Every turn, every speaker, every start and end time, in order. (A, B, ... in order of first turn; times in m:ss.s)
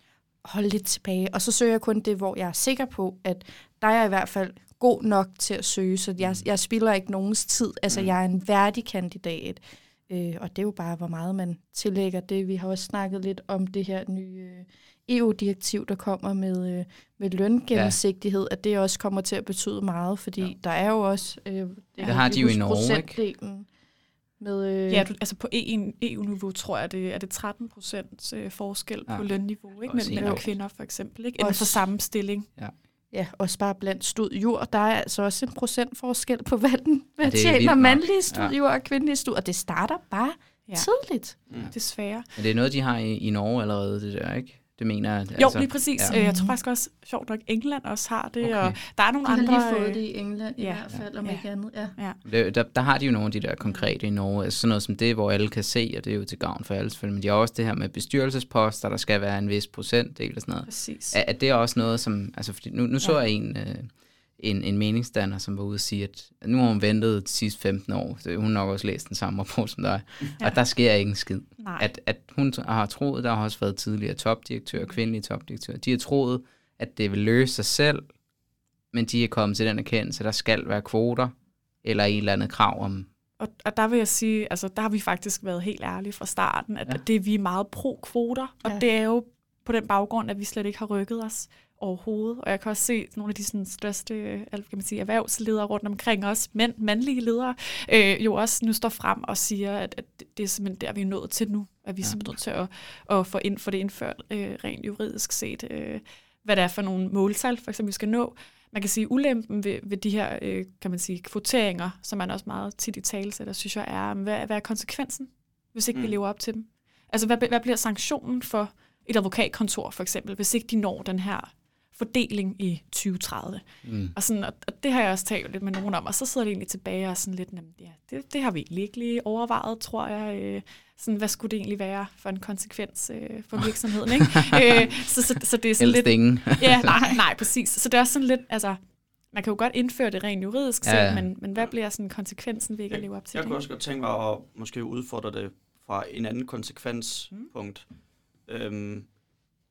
0:00.4-0:23.7 A
0:22.0-0:23.2 B
0:24.4-0:25.1 A
0:24.9-0:32.5 C
0:29.8-0:30.4 B
0:30.2-0:30.4 A
0:31.4-0:31.8 A
0:33.1-0:41.4 A
0:37.2-0:38.5 B
0:41.7-0:42.3 C
0:42.4-0:46.2 B
0:45.4-0:50.0 C
0:46.1-0:46.5 A
0:48.4-0:48.8 B
0:49.2-0:51.9 A
0:50.6-0:52.2 C
0:52.2-1:18.1 B
1:00.7-1:01.2 C
1:11.6-1:11.8 C
1:18.9-1:23.1 B
1:23.4-2:23.6 C
2:03.8-2:04.1 B
2:15.8-2:17.0 B
2:16.9-2:17.1 A
2:20.8-2:21.3 B
2:22.9-2:27.9 D
2:28.4-2:29.1 D